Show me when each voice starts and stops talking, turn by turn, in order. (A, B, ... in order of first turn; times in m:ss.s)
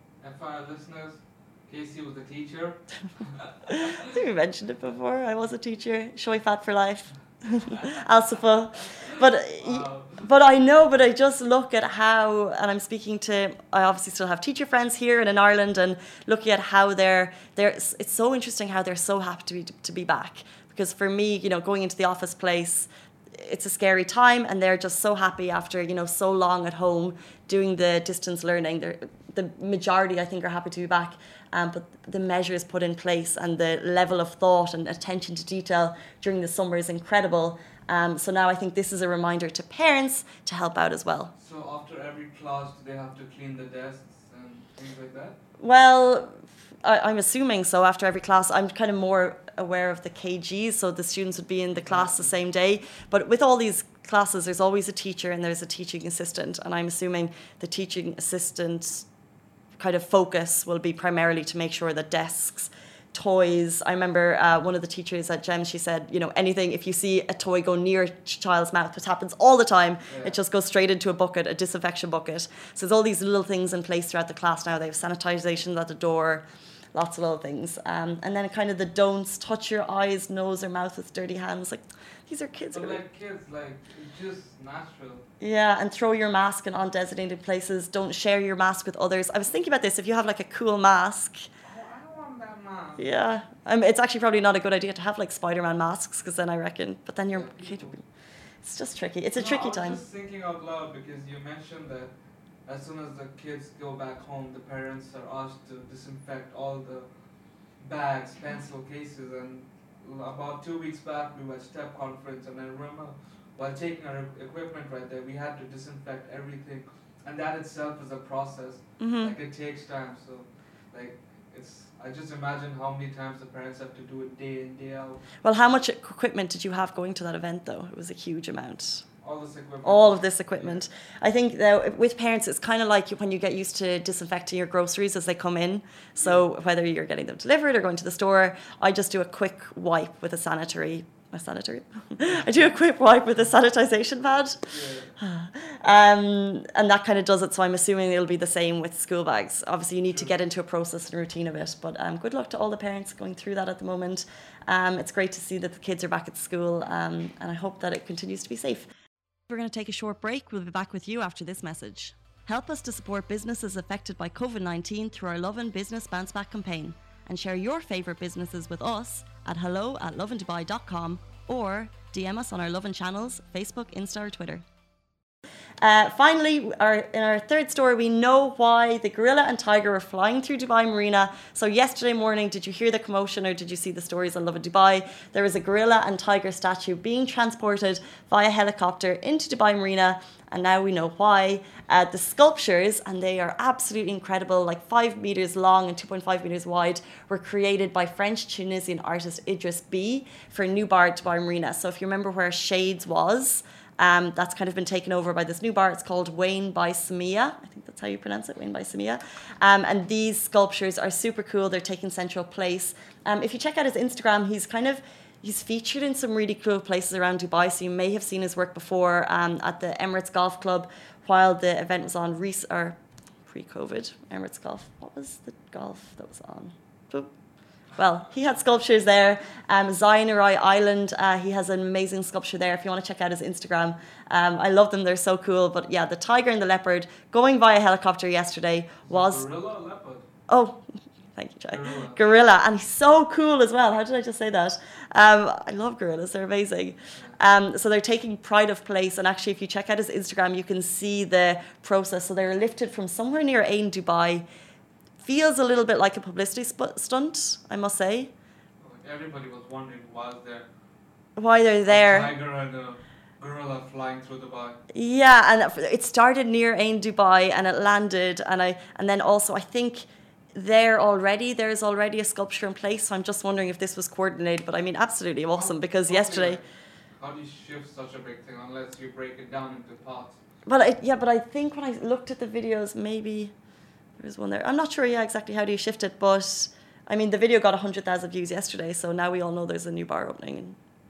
0:00.2-0:04.1 A
0:03.7-0:41.3 B
0:09.6-0:10.3 A
0:41.3-0:45.4 A
0:45.6-0:59.0 B
0:51.7-0:52.3 A
0:59.8-1:23.0 B
1:10.1-1:10.3 A
1:22.7-1:25.2 A
1:25.4-1:31.5 B
1:31.6-1:33.1 A
1:33.0-1:38.0 B
1:37.3-1:37.9 A
1:38.6-1:40.0 B
1:39.3-1:47.1 A
1:47.7-2:05.2 A
1:59.0-1:59.3 B
2:05.4-2:09.0 B
2:09.2-2:10.8 A
2:09.8-2:38.9 B
2:16.2-2:16.4 A
2:24.6-2:25.2 A
2:39.5-2:54.6 B
2:55.8-3:47.3 B
3:47.9-3:59.4 B
3:59.0-4:00.3 A
4:00.5-4:00.8 B
4:01.4-4:14.4 B
4:01.7-4:02.3 A
4:15.2-4:18.3 B
4:18.8-4:20.6 A
4:21.4-4:22.3 B
4:21.9-4:24.8 A
4:24.9-4:36.6 B
4:35.5-4:40.4 A
4:40.6-4:43.5 B
4:44.2-4:50.8 B